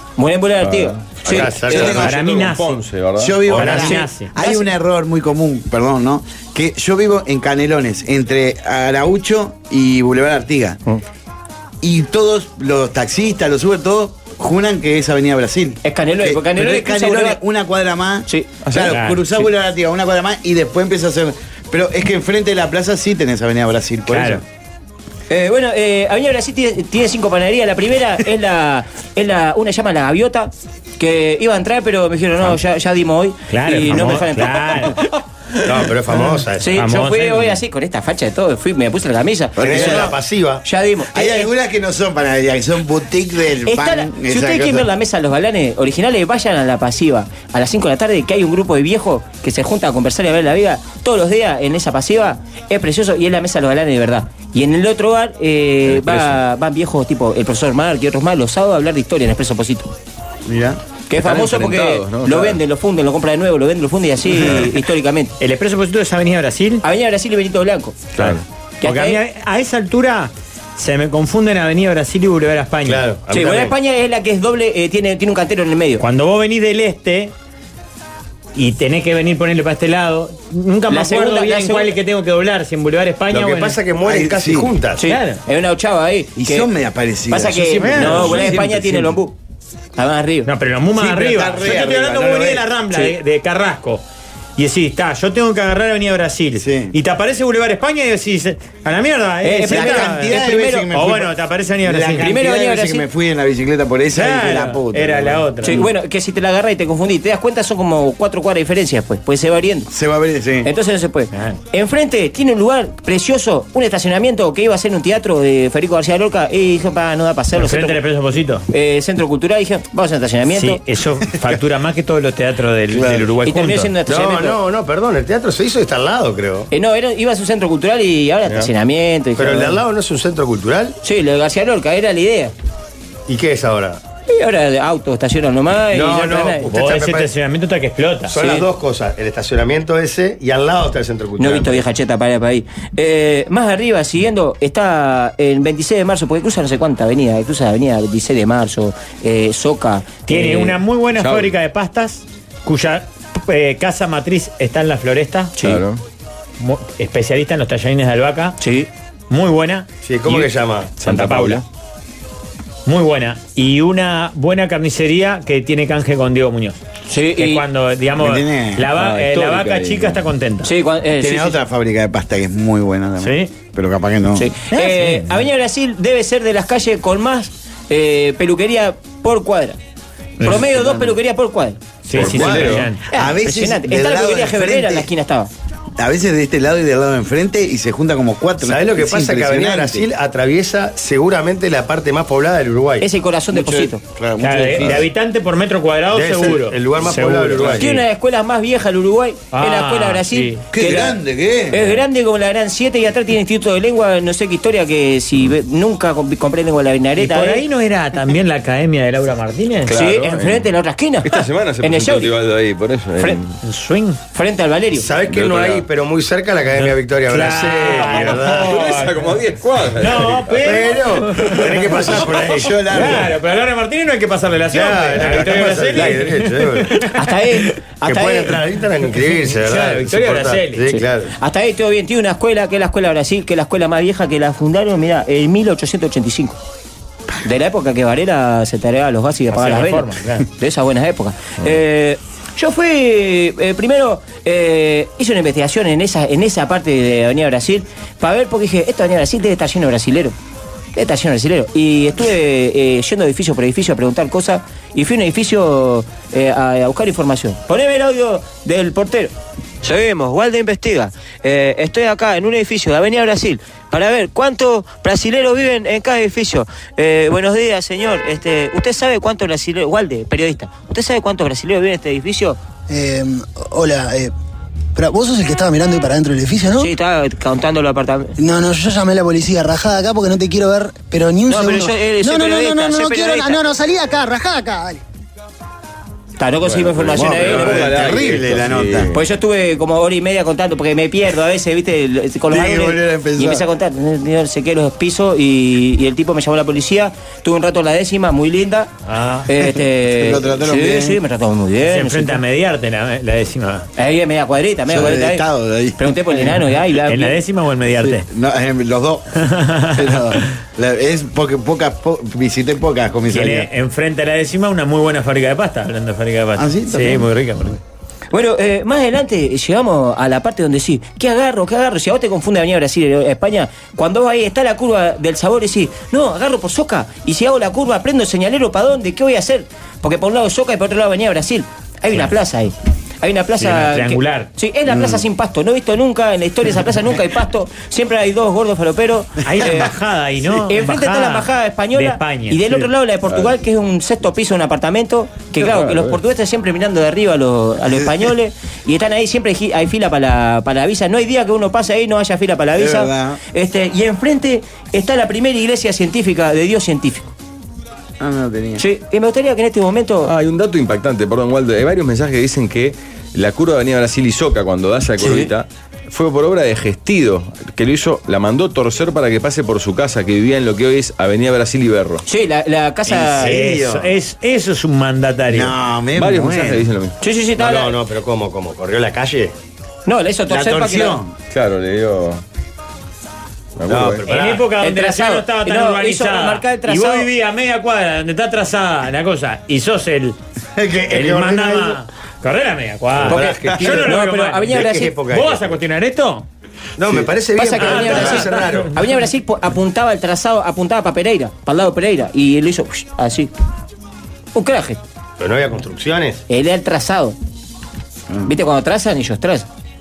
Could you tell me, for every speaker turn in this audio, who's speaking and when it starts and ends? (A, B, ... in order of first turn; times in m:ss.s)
0:00.2-0:02.0 A
0:00.6-0:03.6 B
0:01.2-0:02.1 C
0:01.7-0:02.1 D
0:01.8-0:02.8 E
0:03.2-0:10.8 D
0:03.5-0:04.0 C
0:03.5-0:04.4 E
0:03.9-0:04.4 A
0:11.8-0:24.4 D
0:15.8-0:17.4 A
0:18.6-0:19.0 B
0:18.9-0:19.2 E
0:24.1-0:24.4 E
0:25.3-0:34.9 A
0:33.5-0:35.0 E
0:35.6-0:36.8 C
0:36.6-0:41.5 A
0:36.7-0:37.6 E
0:39.6-0:40.1 D
0:39.6-0:40.6 C
0:41.1-0:44.9 D
0:43.7-0:59.9 A
0:55.9-0:56.4 B
1:00.5-1:00.8 D
1:01.1-1:05.3 A
1:01.2-1:02.6 B
1:05.4-1:06.8 E
1:06.8-1:08.1 A
1:08.2-1:08.4 B
1:08.2-1:13.0 E
1:08.8-1:09.2 A
1:12.9-1:13.8 C
1:13.3-1:16.0 A
1:16.0-1:17.3 E
1:18.6-1:23.8 E
1:20.9-1:21.9 A
1:23.3-1:25.0 C
1:24.1-1:24.7 D
1:25.0-1:26.7 A
1:25.0-1:25.4 E
1:26.4-1:29.1 D
1:27.3-1:29.4 A
1:27.8-1:28.5 E
1:30.0-1:30.5 A
1:30.4-1:34.0 E
1:30.9-1:32.7 D
1:34.6-1:40.4 E
1:36.6-1:37.0 D
1:39.4-1:40.9 A
1:39.7-1:45.9 D
1:40.9-1:42.3 E
1:42.2-1:43.1 A
1:44.1-1:45.9 E
1:45.6-1:49.9 A
1:49.9-1:50.7 D
1:50.6-1:58.0 A
1:51.3-1:51.6 E
1:57.6-1:58.7 E
1:58.7-2:00.8 A
2:00.5-2:03.9 E
2:02.9-2:03.3 D
2:03.4-2:04.6 A
2:04.1-2:06.7 C
2:06.7-2:09.8 A
2:09.4-2:11.0 C
2:11.0-2:12.5 A
2:13.3-2:14.0 C
2:14.3-2:16.7 A
2:15.9-2:17.3 C
2:16.7-2:18.4 E
2:18.3-2:21.9 C
2:18.4-2:18.7 A
2:21.4-2:30.7 A
2:30.3-2:35.6 E
2:31.2-2:31.5 B
2:35.6-2:36.0 B
2:36.6-2:38.6 E
2:38.6-2:38.9 A
2:39.3-2:40.5 E
2:40.0-2:40.9 C
2:41.0-2:41.6 B
2:41.0-2:41.6 E
2:42.9-2:46.8 E
2:47.1-2:47.6 A
2:47.4-2:50.7 E
2:48.2-2:48.9 D
2:49.0-2:50.2 B
2:50.6-2:51.6 A
2:51.2-2:54.5 D
2:53.2-2:53.5 E
2:54.4-2:59.8 A
2:54.7-2:55.3 E
3:00.4-3:05.5 A
3:02.0-3:03.1 E
3:02.1-3:02.9 B
3:03.1-3:05.1 D
3:06.0-3:10.1 D
3:08.7-3:13.1 C
3:13.0-3:14.0 A
3:13.5-3:15.1 D
3:14.4-3:18.0 E
3:16.1-3:18.0 C
3:17.7-3:21.2 A
3:19.5-3:20.6 E
3:20.7-3:22.0 D
3:21.7-3:27.6 A
3:27.2-3:30.2 E
3:29.9-3:30.7 B
3:29.9-3:32.3 A
3:31.2-3:33.6 B
3:33.6-3:34.2 E
3:34.3-3:35.1 A
3:34.9-3:38.8 C
3:35.2-3:35.8 B
3:37.3-3:39.3 E
3:38.2-3:40.8 B
3:40.0-3:42.3 E
3:40.6-3:42.7 C
3:40.6-3:43.3 D
3:42.9-3:47.7 E
3:44.7-3:47.1 C
3:47.1-3:48.6 A
3:48.0-3:51.3 C
3:49.5-3:51.0 E
3:51.4-3:56.6 A
3:57.4-4:10.4 A
3:59.5-4:00.4 E
4:11.0-4:32.6 A
4:32.9-4:34.3 F
4:35.0-4:36.9 F
4:36.8-4:38.3 A
4:38.4-4:45.0 F
4:41.5-4:43.7 A
4:46.4-4:47.9 A
4:46.6-4:49.2 B
4:47.1-4:49.1 D
4:49.1-4:58.9 A
4:52.5-4:53.6 D
4:59.1-4:59.5 E
4:59.5-5:02.4 A
5:00.0-5:01.2 D
5:01.8-5:03.9 E
5:04.0-5:05.4 A
5:04.9-5:06.5 D
5:06.0-5:07.4 A
5:07.1-5:08.3 E
5:08.0-5:09.3 D
5:09.4-5:10.4 E
5:09.9-5:13.7 D
5:13.3-5:17.8 E
5:16.6-5:17.3 D
5:18.3-5:39.9 A
5:33.6-5:34.5 E
5:39.4-5:42.9 E
5:40.5-5:57.3 A
5:45.6-5:46.2 B
5:52.8-5:53.4 D
5:58.2-5:58.8 D
5:58.8-6:00.3 A
6:00.2-6:12.2 B
6:05.2-6:05.5 A
6:12.3-6:13.5 A
6:13.1-6:14.1 D
6:13.4-6:15.7 E
6:15.5-6:16.8 D
6:16.2-6:17.2 B
6:17.2-6:18.0 A
6:17.6-6:19.5 C
6:20.1-6:21.2 A
6:20.5-6:21.3 D
6:21.5-6:22.4 B
6:23.8-6:24.3 B
6:23.9-6:24.7 C
6:24.3-6:30.4 E
6:24.5-6:27.3 A
6:30.8-6:31.1 D
6:30.9-6:32.0 C
6:31.1-6:36.5 E
6:33.2-6:35.8 C
6:33.3-6:35.2 A
6:37.0-6:38.9 C
6:37.6-6:43.5 A
6:37.8-6:38.8 E
6:44.6-6:45.0 A
6:45.4-6:46.4 C
6:46.5-6:47.4 A
6:48.4-6:49.7 A